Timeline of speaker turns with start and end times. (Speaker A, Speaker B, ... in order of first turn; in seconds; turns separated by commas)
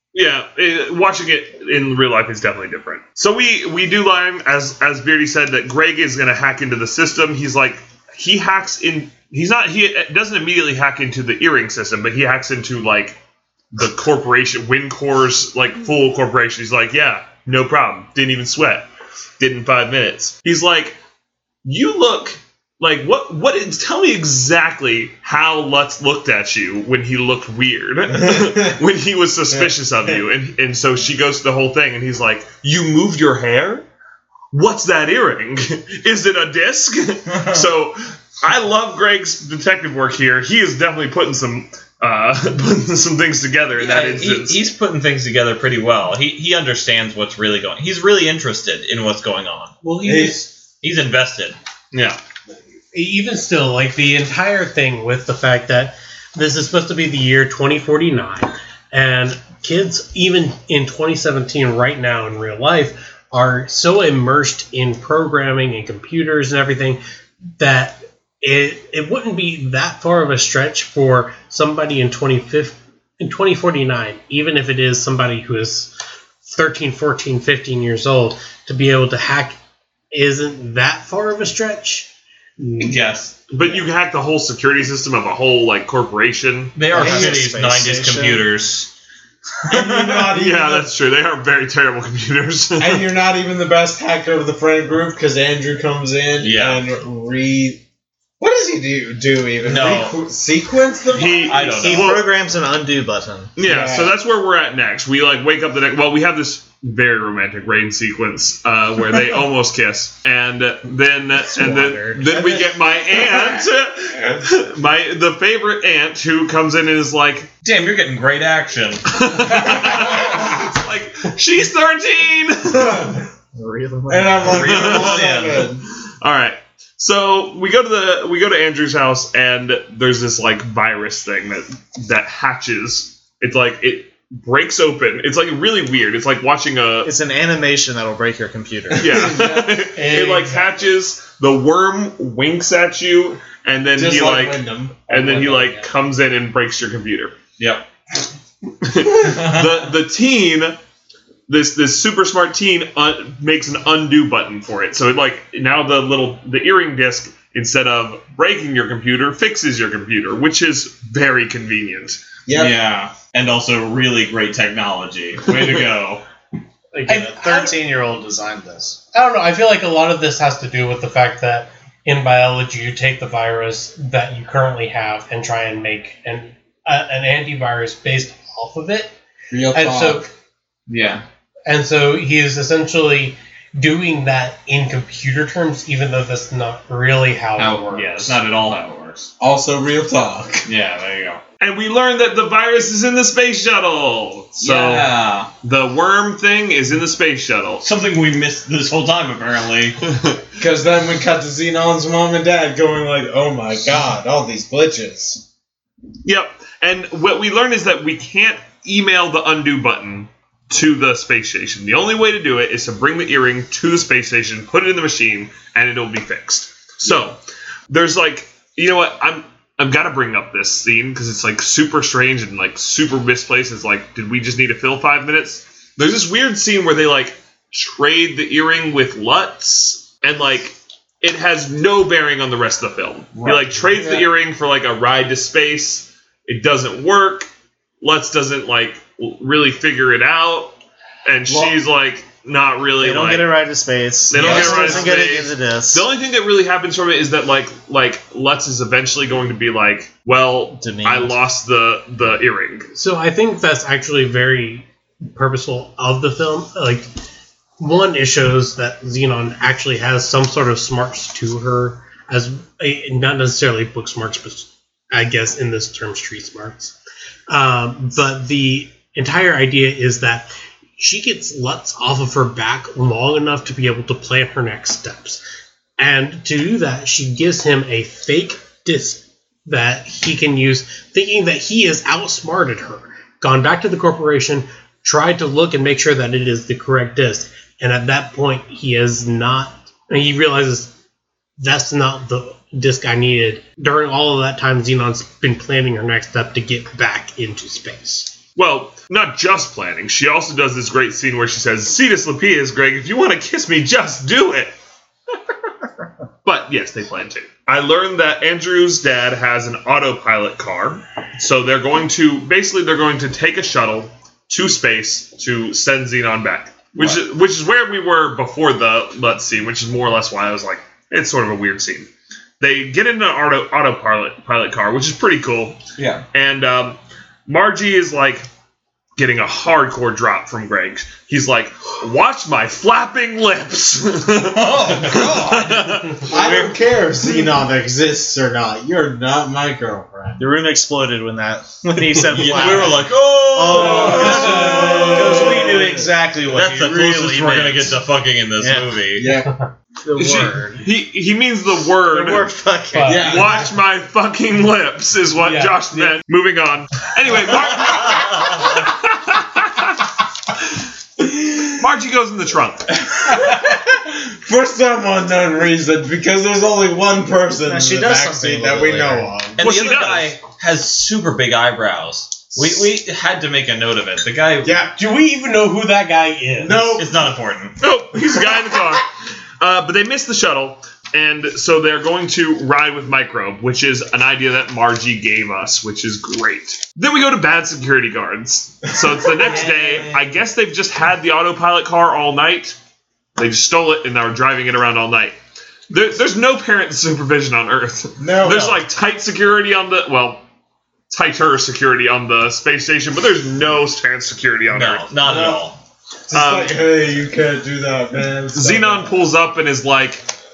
Speaker A: 0.1-13.2, Speaker A: 13.7-18.9, Speaker A: 19.4-21.0, Speaker A: 21.6-33.9, Speaker A: 34.5-44.6, Speaker B: 43.8-49.8, Speaker C: 49.8-50.5, Speaker D: 50.0-50.4, Speaker B: 50.8-51.6, Speaker A: 51.9-52.2, Speaker C: 52.9-67.0, Speaker C: 67.6-75.9, Speaker C: 76.5-79.6, Speaker C: 80.1-82.1, Speaker C: 82.6-83.0, Speaker B: 82.8-83.5, Speaker A: 83.5-86.8, Speaker B: 86.8-88.9, Speaker E: 86.9-88.5, Speaker D: 86.9-87.5, Speaker B: 89.7-90.3, Speaker D: 89.7-90.9, Speaker A: 90.3-93.0, Speaker D: 92.8-97.8, Speaker B: 96.4-96.8, Speaker D: 98.4-102.1, Speaker B: 99.6-100.2, Speaker A: 101.1-102.2, Speaker B: 101.2-102.1, Speaker E: 101.8-103.5, Speaker A: 103.6-117.5, Speaker D: 103.6-104.1, Speaker E: 111.6-112.5, Speaker B: 117.6-120.0, Speaker A: 119.1-123.2, Speaker D: 122.7-123.2, Speaker E: 123.5-124.9, Speaker D: 124.1-125.8, Speaker B: 124.5-125.7, Speaker A: 124.5-125.3, Speaker A: 126.2-137.1, Speaker E: 137.0-139.3, Speaker A: 139.0-147.3, Speaker D: 139.1-139.8, Speaker C: 139.9-140.8, Speaker D: 144.0-145.8, Speaker B: 147.6-147.8, Speaker A: 148.8-150.8, Speaker B: 149.2-149.7, Speaker A: 151.5-162.2, Speaker D: 162.5-162.9, Speaker B: 162.5-166.2, Speaker C: 166.9-167.8, Speaker E: 167.1-169.0, Speaker C: 169.1-179.1, Speaker D: 179.5-180.3, Speaker C: 179.7-180.3, Speaker B: 180.9-181.2, Speaker C: 181.7-188.4, Speaker B: 187.6-189.3, Speaker D: 189.4-190.7, Speaker B: 190.7-191.4, Speaker A: 191.6-197.8, Speaker B: 194.6-195.5, Speaker B: 197.8-200.0, Speaker D: 200.6-205.4, Speaker A: 206.2-237.5, Speaker D: 233.4-234.3, Speaker A: 238.0-243.5, Speaker E: 243.0-246.1, Speaker A: 244.3-252.9, Speaker D: 244.4-245.0, Speaker E: 250.8-251.4, Speaker C: 252.9-257.1, Speaker C: 257.8-266.9, Speaker C: 267.5-275.4, Speaker C: 276.0-290.9, Speaker C: 291.6-298.3, Speaker A: 298.6-304.7, Speaker A: 306.4-322.1, Speaker A: 322.6-325.8, Speaker B: 326.0-326.2, Speaker A: 326.3-328.5, Speaker A: 329.2-336.3, Speaker B: 334.5-336.7, Speaker D: 336.3-340.5, Speaker E: 340.4-348.0, Speaker B: 342.2-349.3, Speaker D: 342.4-342.9, Speaker D: 343.7-346.1, Speaker E: 348.6-349.1, Speaker D: 349.2-349.6, Speaker E: 350.1-350.8, Speaker A: 350.1-352.5, Speaker E: 352.1-353.4, Speaker C: 352.9-353.4, Speaker D: 353.1-353.7, Speaker A: 353.2-360.0, Speaker C: 355.4-356.2, Speaker B: 358.1-358.6, Speaker A: 361.8-362.9, Speaker D: 363.1-369.6, Speaker E: 367.6-369.3, Speaker B: 369.6-374.7, Speaker A: 369.6-370.4, Speaker D: 374.6-374.9, Speaker C: 374.9-376.9, Speaker D: 376.6-377.3, Speaker B: 376.9-377.8, Speaker A: 377.8-379.1, Speaker A: 379.6-392.8, Speaker D: 389.2-390.2, Speaker A: 393.4-395.4, Speaker A: 395.9-400.4, Speaker D: 398.2-398.8, Speaker A: 401.1-405.1, Speaker B: 404.7-405.8, Speaker D: 405.2-405.6, Speaker D: 406.3-409.1, Speaker A: 406.3-406.8, Speaker A: 408.5-410.3